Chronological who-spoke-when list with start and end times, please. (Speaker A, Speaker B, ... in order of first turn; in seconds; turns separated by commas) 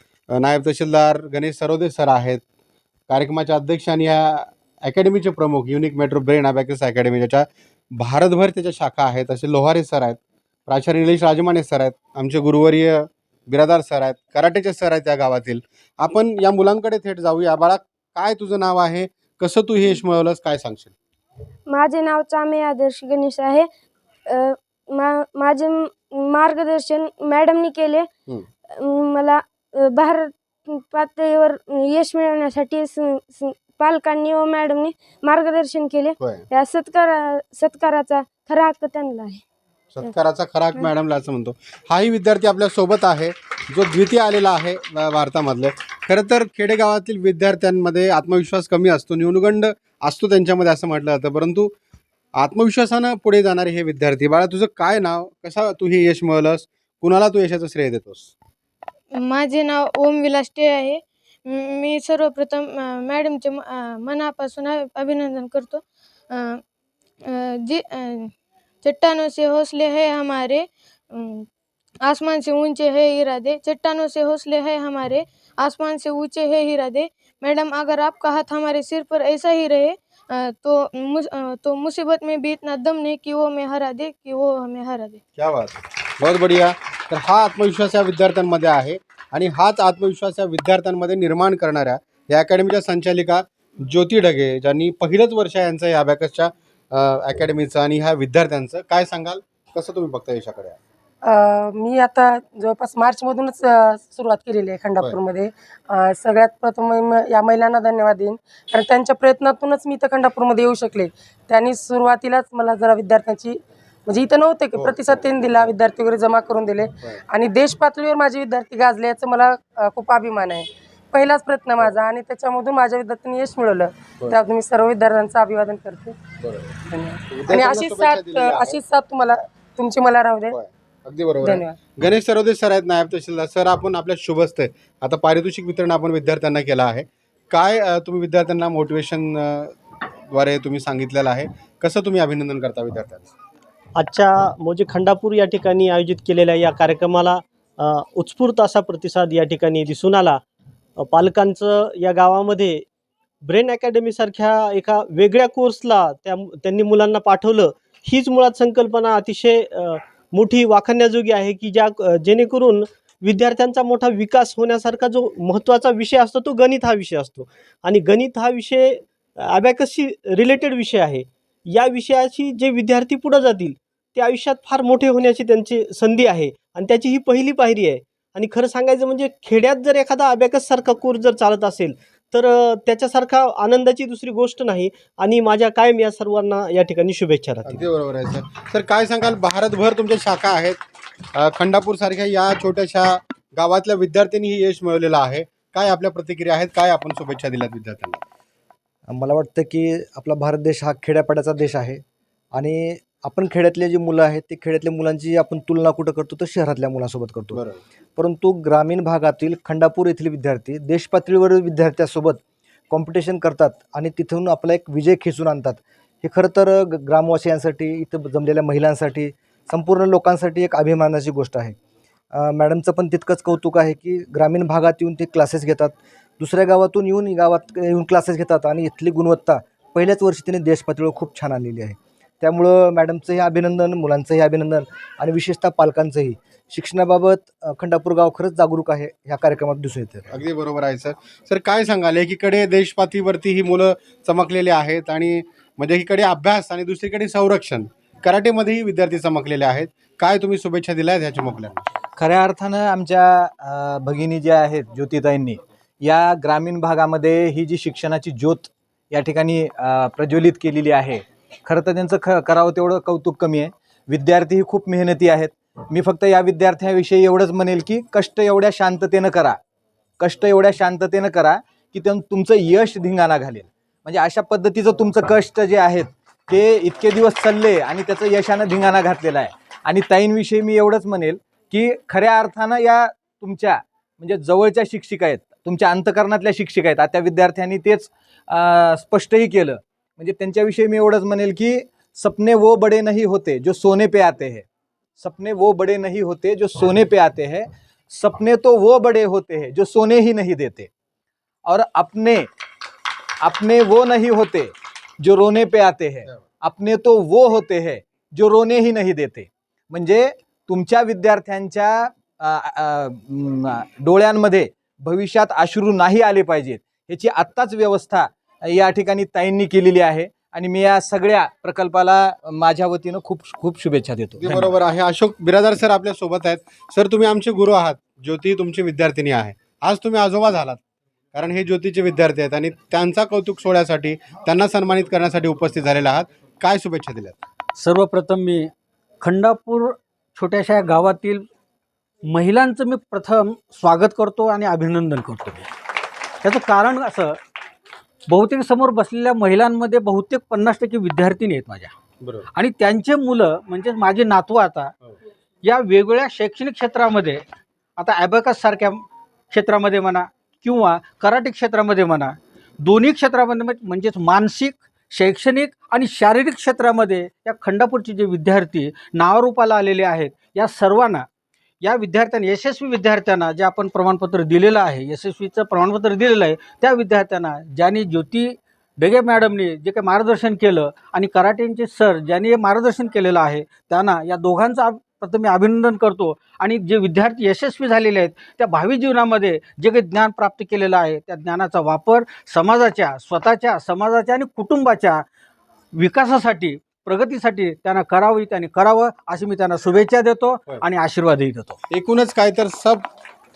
Speaker A: 0.3-2.4, Speaker A: 3.1-20.9, Speaker B: 21.7-23.7, Speaker B: 24.3-28.1, Speaker B: 28.7-39.4, Speaker A: 39.9-51.7, Speaker A: 52.4-58.3, Speaker C: 59.1-66.6, Speaker C: 67.3-68.3, Speaker C: 68.8-71.5, Speaker C: 72.0-85.2, Speaker A: 85.4-100.8, Speaker D: 101.2-126.2, Speaker A: 114.7-115.7, Speaker A: 126.4-128.8, Speaker D: 126.8-130.6, Speaker A: 130.5-139.7, Speaker D: 131.4-131.8, Speaker A: 140.3-143.3, Speaker E: 143.9-150.4, Speaker E: 151.0-152.8, Speaker E: 153.4-187.8, Speaker A: 187.7-190.8, Speaker A: 191.3-198.2, Speaker F: 199.1-202.0, Speaker F: 202.5-207.6, Speaker A: 207.5-207.8, Speaker F: 208.2-221.7, Speaker F: 222.3-240.4, Speaker A: 240.3-251.8, Speaker G: 252.2-269.6, Speaker G: 270.2-294.6, Speaker G: 295.2-300.9, Speaker G: 301.6-302.5, Speaker G: 303.4-324.7, Speaker A: 324.4-330.8, Speaker A: 331.3-337.4, Speaker H: 337.8-338.7, Speaker H: 339.2-341.4, Speaker H: 342.3-345.7, Speaker H: 346.4-347.4, Speaker H: 348.3-351.9, Speaker A: 352.2-352.4, Speaker H: 352.5-354.9, Speaker H: 355.6-357.4, Speaker H: 358.0-371.2, Speaker H: 371.8-395.2, Speaker H: 396.0-401.8, Speaker A: 401.9-403.0